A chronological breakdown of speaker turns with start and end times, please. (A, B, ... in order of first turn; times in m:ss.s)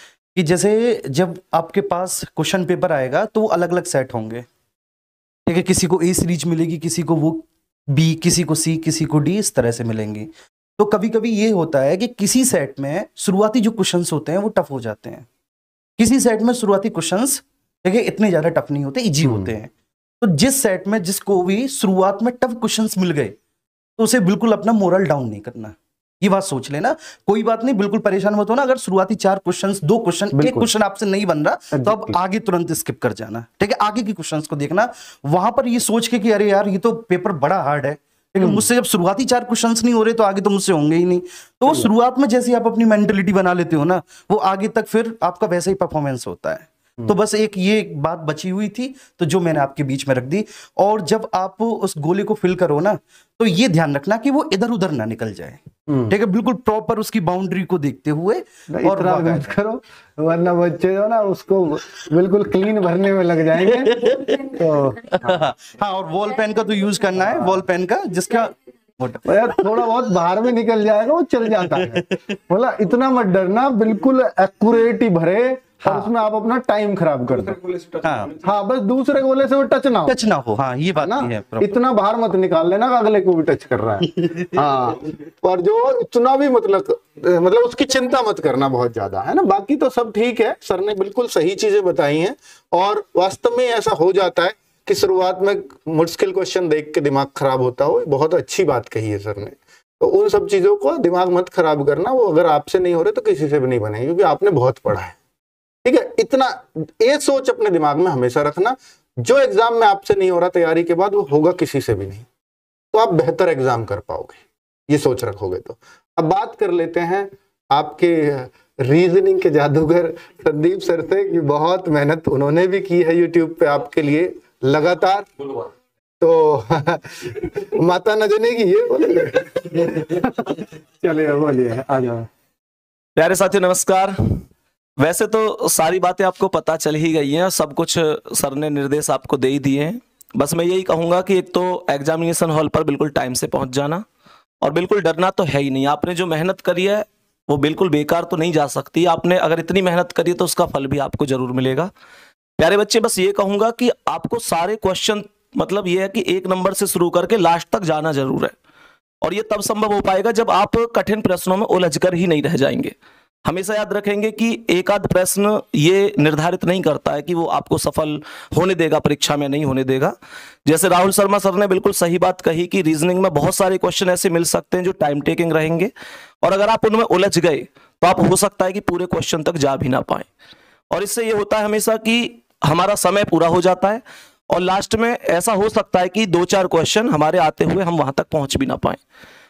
0:00.3-0:04.4 A
0:05.5-0:15.3 A
0:16.0-0:23.4 A
0:19.2-0:19.5 B
0:24.0-0:59.4 A
0:30.3-0:30.7 B
0:31.7-0:32.2 B
0:38.4-0:38.6 B
0:55.9-0:56.1 B
0:58.7-1:05.4 B
1:03.9-1:04.4 A
1:05.2-1:09.2 A
1:07.2-1:07.6 B
1:09.2-1:17.6 B
1:18.0-1:18.4 A
1:18.4-1:20.2 B
1:20.0-1:21.7 A
1:21.0-1:45.2 B
1:45.8-1:52.3 B
1:52.9-2:05.7 B
2:06.2-2:12.3 B
2:13.2-2:14.4 C
2:15.0-2:24.0 C
2:24.6-2:31.9 C
2:32.6-2:38.5 C
2:39.2-2:42.9 C
2:43.4-2:50.1 C
2:50.6-2:55.9 C
2:56.4-3:00.3 C
3:00.9-3:09.0 C